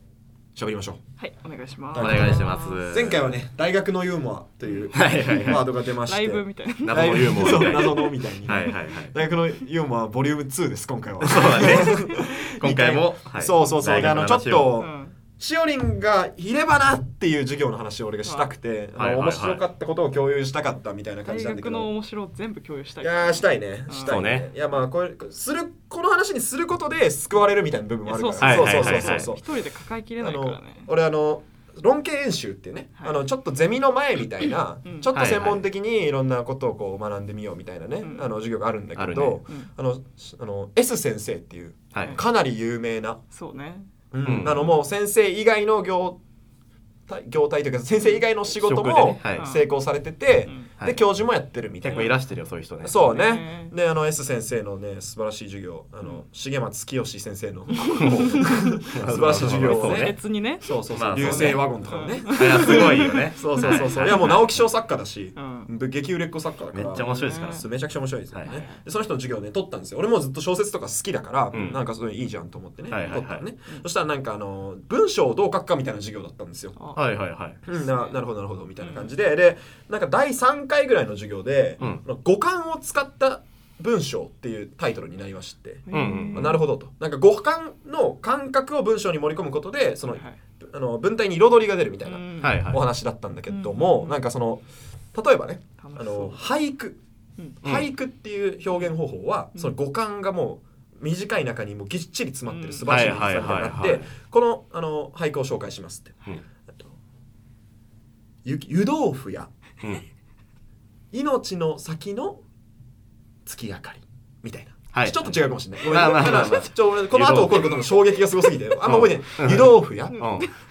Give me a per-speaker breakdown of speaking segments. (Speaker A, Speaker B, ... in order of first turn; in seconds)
Speaker A: 0.5-1.0, 1.9-21.9, 23.0-29.4, 30.2-43.2, 44.1-46.2, 47.1-52.1, 52.8-76.8, 77.7-97.0, 97.6-106.1, 108.4-109.5, 111.1-112.4, 113.4-120.5
Speaker B: 1.2-2.8, 4.7-8.8, 11.5-12.1, 14.8-15.2, 18.2-18.5, 21.2-24.2, 28.0-30.9, 34.8-35.1, 38.0-38.3, 43.3-43.9, 49.3-49.7, 52.9-53.7, 57.9-58.6, 59.5-64.4, 65.3-65.7, 66.9-67.7, 68.4-68.8, 73.1-73.8, 77.7-78.1, 78.8-79.1, 85.9-86.6, 90.1-90.4, 92.0-92.8, 93.5-94.2, 95.8-96.4, 102.5-103.0, 120.1-120.5
Speaker C: 1.9-3.2, 4.9-5.6, 6.8-9.1, 11.2-14.8, 18.9-19.6, 24.1-24.5, 28.4-29.3, 35.1-35.6, 39.0-39.4, 41.9-42.2, 44.2-44.8, 48.4-49.5, 51.8-53.1, 58.0-60.2, 60.9-64.6, 66.7-67.7, 68.3-68.6, 71.5-71.8, 72.9-73.4, 77.0-77.6, 85.9-86.6, 92.4-92.8, 97.6-97.9, 102.8-104.1, 114.9-117.8, 118.8-120.5